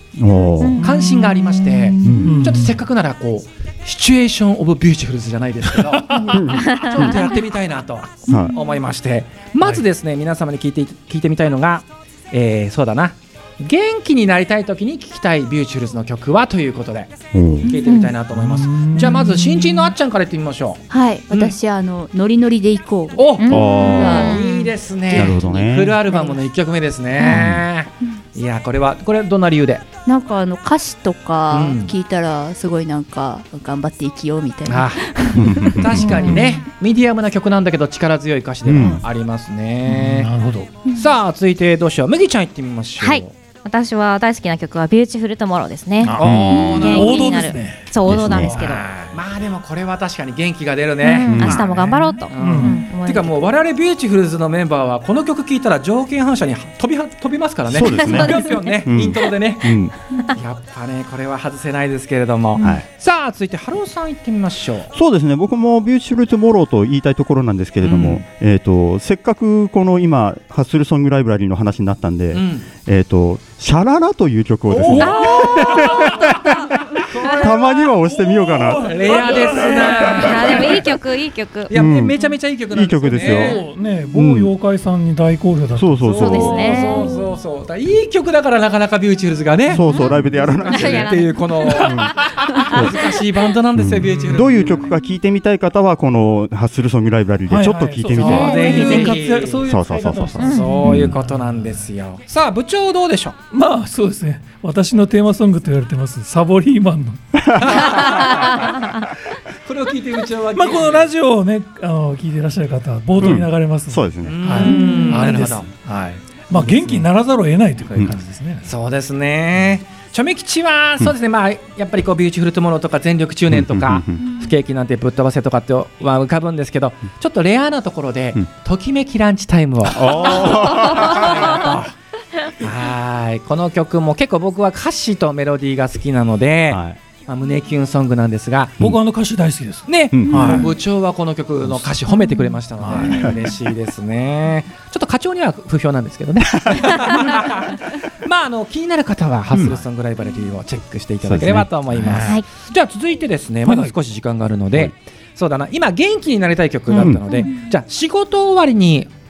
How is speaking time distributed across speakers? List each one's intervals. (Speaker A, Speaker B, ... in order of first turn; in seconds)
Speaker A: 0.2-0.8, 2.0-2.4, 6.2-7.3, 8.3-8.5, 17.3-17.8, 23.5-24.4, 25.1-25.9, 27.2-27.6, 35.3-36.4, 38.6-39.0, 46.2-46.7, 48.0-48.6, 51.2-51.7, 57.7-59.9, 62.6-62.9, 64.9-79.1, 81.7-83.6, 84.1-84.5, 85.8-86.8, 89.7-91.1, 91.9-92.1, 92.7-93.0, 93.7-98.7, 99.6-101.2, 107.5-107.9, 113.2-114.5, 123.5-124.3, 129.8-131.8, 136.7-137.0, 140.1-140.7, 151.2-152.2, 156.9-157.2
Speaker B: 0.8-21.5, 23.1-29.9, 31.5-31.9, 34.7-40.3, 40.9-43.3, 46.1-47.2, 48.5-64.9, 67.8-68.2, 72.3-72.7, 74.7-76.3, 77.1-77.7, 78.8-80.9, 81.7-83.6, 86.0-94.9, 98.1-99.7, 100.4-103.4, 107.6-108.8, 109.6-111.1, 114.2-115.7, 118.6-131.9, 132.6-138.9, 139.9-159.1
Speaker C: 2.2-2.8, 5.8-6.3, 18.4-19.9, 36.1-36.6, 39.9-40.7, 46.1-49.1, 52.4-52.8, 76.0-76.4, 77.0-80.8, 83.2-86.2, 91.8-92.7, 97.5-101.7, 103.5-107.9, 110.5-118.7, 138.8-140.7, 142.8-143.2, 152.0-152.4, 153.7-153.9
Speaker D: 20.9-26.4, 27.2-27.5, 30.1-36.4, 57.9-58.7, 114.7-115.2
Speaker E: 23.4-24.4, 43.0-48.8, 51.0-53.3, 74.9-75.8, 80.1-81.7, 86.2-87.2, 89.8-91.5, 98.2-99.2, 100.4-100.8